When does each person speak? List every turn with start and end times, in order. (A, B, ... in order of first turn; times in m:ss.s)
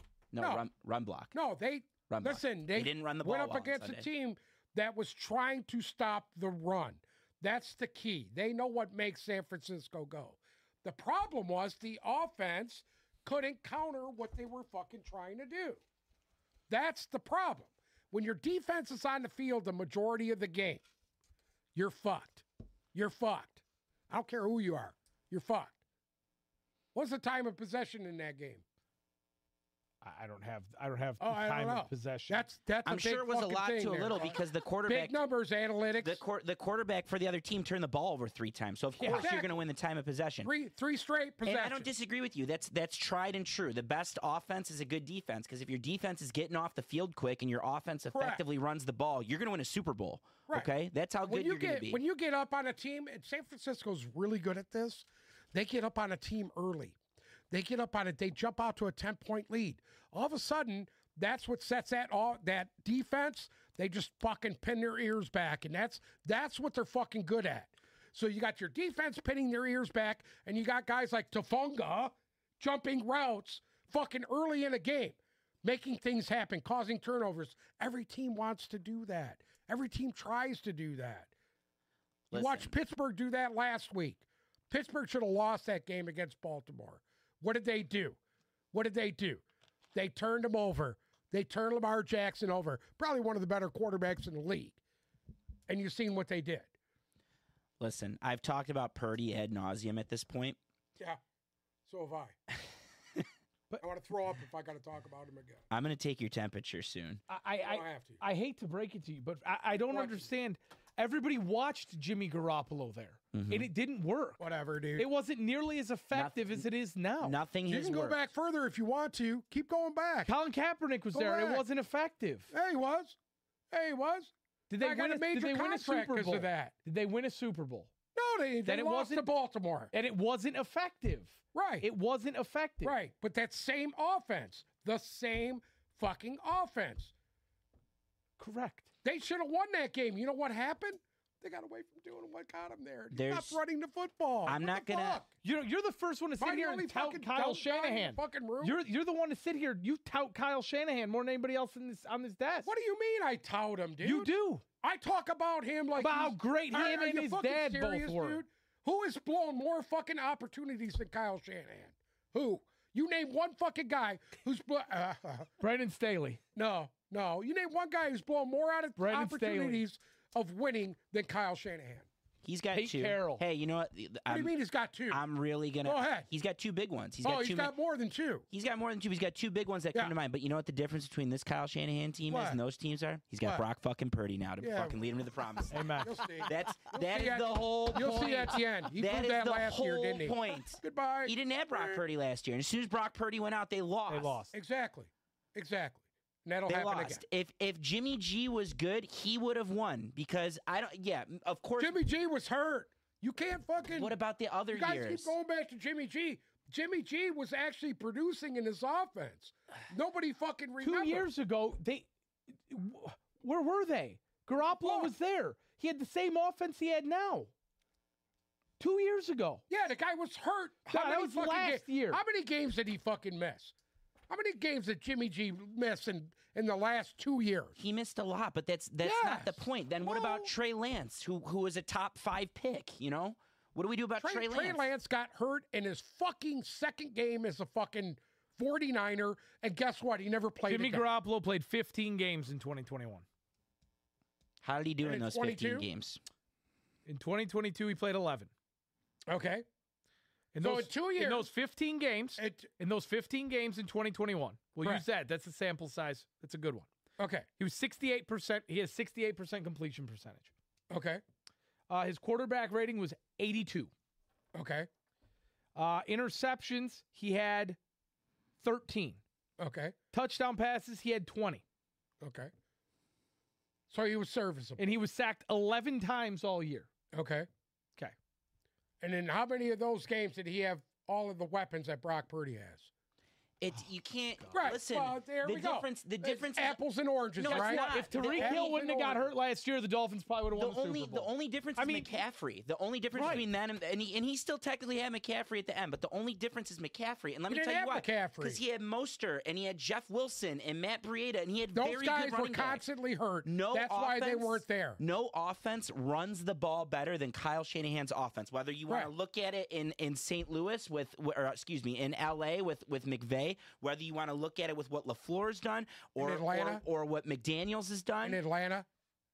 0:00.3-0:01.3 A
0:00.4-0:00.6 B
0:01.3-0:15.8 B
0:02.1-0:04.1 A
0:16.7-0:20.8 B
0:21.7-0:25.7 B
0:26.9-0:28.6 B
0:30.0-0:32.4 C
0:31.2-0:36.2 B
0:32.8-0:35.2 A
0:36.0-0:40.5 A
0:39.0-0:39.3 C
0:39.1-0:39.5 B
0:40.4-0:41.9 B
0:41.4-0:52.0 A
0:48.1-0:48.4 B
0:51.2-0:57.0 B
0:57.5-1:21.3 B
1:22.3-1:22.7 A
1:22.3-1:28.2 B
1:28.7-1:29.4 B
1:29.9-1:34.8 B
1:35.7-1:36.7 B
1:37.8-1:40.6 A
1:41.9-1:42.3 B
1:43.8-1:45.6 B
1:45.7-1:47.2 A
1:47.3-1:54.4 C
1:47.6-1:48.2 B
1:49.9-1:50.3 B
1:53.3-1:53.7 A
1:54.4-1:55.1 B
1:55.0-1:57.4 C
1:56.1-1:56.6 A
1:57.2-1:58.2 A
1:57.7-2:00.3 B
2:00.2-2:02.5 C
2:01.1-2:01.6 B
2:02.5-2:03.2 B
2:03.7-2:06.7 B
2:04.7-2:07.9 C
2:08.1-2:09.9 B
2:08.6-2:09.2 C
2:09.9-2:12.9 C
2:11.5-2:11.9 B
2:12.8-2:17.1 B
2:18.4-2:18.9 C
2:19.0-2:25.3 B
2:23.1-2:23.6 A
2:24.4-2:25.2 A
2:25.4-2:32.7 C
2:26.4-2:28.8 B
2:32.6-2:45.5 B
2:34.0-2:34.6 C
2:36.0-2:38.4 C
2:45.6-2:46.4 C
2:46.5-2:52.1 B
2:49.0-2:49.8 C
2:52.4-2:54.5 A
2:52.7-2:53.4 C
2:54.3-2:55.2 B
2:55.1-2:57.7 A
2:55.8-2:56.3 B
2:57.2-2:58.4 B
2:58.5-3:14.4 A
3:02.3-3:02.6 B
3:04.6-3:05.1 B
3:05.7-3:06.2 C
3:06.0-3:12.0 B
3:14.1-3:14.5 C
3:14.5-3:17.2 B
3:16.7-3:22.0 A
3:21.8-3:24.1 B
3:23.9-3:25.3 A
3:24.7-3:31.3 B
3:30.8-3:32.1 C
3:32.7-3:37.5 C
3:34.7-3:35.1 B
3:38.8-3:39.6 C
3:39.7-3:43.7 B
3:40.9-3:42.2 C
3:44.3-3:47.8 B
3:47.8-3:54.8 A
3:49.0-3:50.4 B
3:54.2-4:01.0 B
4:00.7-4:03.2 C
4:04.6-4:06.2 A
4:05.0-4:05.9 B
4:07.0-4:08.5 C
4:09.3-4:09.6 B
4:10.5-4:16.9 C
4:10.6-4:11.5 B
4:12.4-4:12.7 B
4:17.2-4:17.5 B
4:17.6-4:20.5 C
4:20.9-4:21.2 B
4:21.9-4:23.9 C
4:24.5-4:24.9 B
4:25.7-4:27.8 C
4:28.6-4:29.2 C
4:29.6-4:29.9 B
4:30.1-4:31.6 C
4:32.2-4:32.5 B
4:33.9-4:34.8 B
4:34.8-4:36.9 C
4:37.1-4:37.5 B
4:39.0-4:42.9 B
4:43.6-4:46.8 A
4:44.5-4:49.3 B
4:47.4-4:48.7 A
4:47.4-4:52.2 C
4:50.5-5:02.8 A
4:53.1-4:53.4 C
4:57.5-4:58.6 B
5:01.7-5:05.0 B
5:03.4-5:18.4 A
5:16.2-5:16.8 B
5:18.2-5:18.8 B